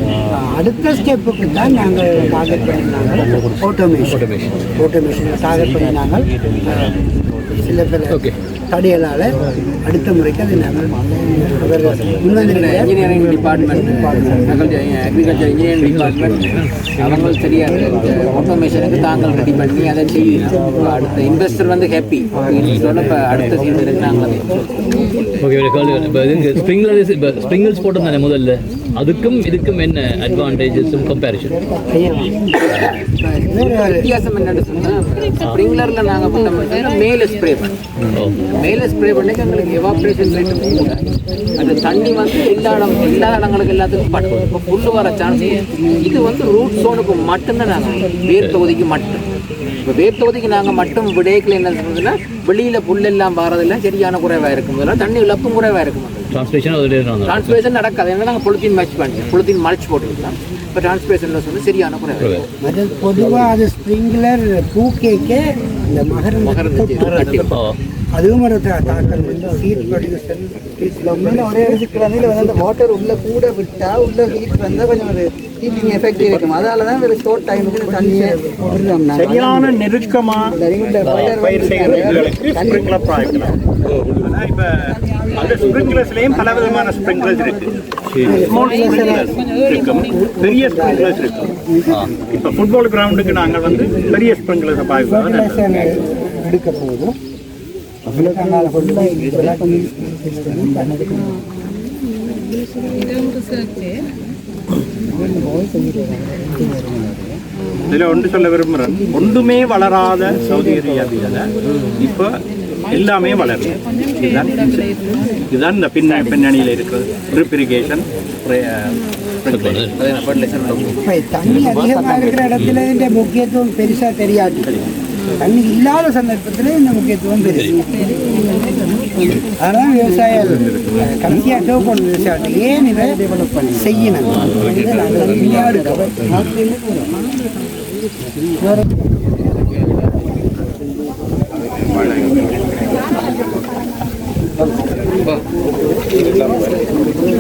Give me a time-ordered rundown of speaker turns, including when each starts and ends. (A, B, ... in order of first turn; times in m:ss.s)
0:00.3-0:04.2 A
0:03.4-0:04.7 B
0:04.8-0:07.0 A
0:07.6-0:13.0 A
0:08.1-0:08.3 B
0:11.9-0:12.2 B
0:12.4-0:16.5 C
0:15.8-0:17.3 B
0:17.0-0:24.7 C
0:22.6-0:22.9 B
0:25.4-0:31.6 B
0:31.9-0:34.1 A
0:33.4-0:37.8 C
0:38.1-0:38.4 B
0:38.5-0:41.0 C
0:41.6-0:49.2 C
0:48.4-0:48.6 B
0:49.8-0:56.4 C
0:56.3-0:57.6 B
0:57.2-1:02.5 C
1:02.2-1:02.5 B
1:02.6-1:07.2 A
1:06.4-1:07.6 C
1:07.0-1:07.6 D
1:07.5-1:07.8 B
1:08.1-1:12.6 A
1:11.6-1:18.5 E
1:16.2-1:16.6 C
1:16.2-1:16.6 D
1:17.9-1:19.7 A
1:19.1-1:20.6 D
1:20.5-1:23.6 A
1:20.9-1:21.6 E
1:21.0-1:21.4 B
1:21.3-1:23.6 D
1:21.5-1:22.2 C
1:23.9-1:24.2 B
1:24.2-1:27.7 D
1:25.0-1:29.5 A
1:28.1-1:28.5 B
1:28.4-1:31.5 D
1:30.0-1:32.0 A
1:32.3-1:35.9 D
1:33.7-1:34.1 A
1:35.1-1:37.1 A
1:38.1-1:41.4 A
1:46.5-1:47.2 A
1:47.9-1:52.4 D
1:52.9-1:59.8 D
1:59.5-2:00.0 B
1:59.9-2:01.0 C
2:01.0-2:07.8 A
2:01.5-2:02.6 C
2:07.5-2:07.8 B
2:09.2-2:09.4 B
2:09.6-2:16.4 A
2:14.4-2:15.5 B
2:21.8-2:22.7 D
2:26.3-2:26.6 D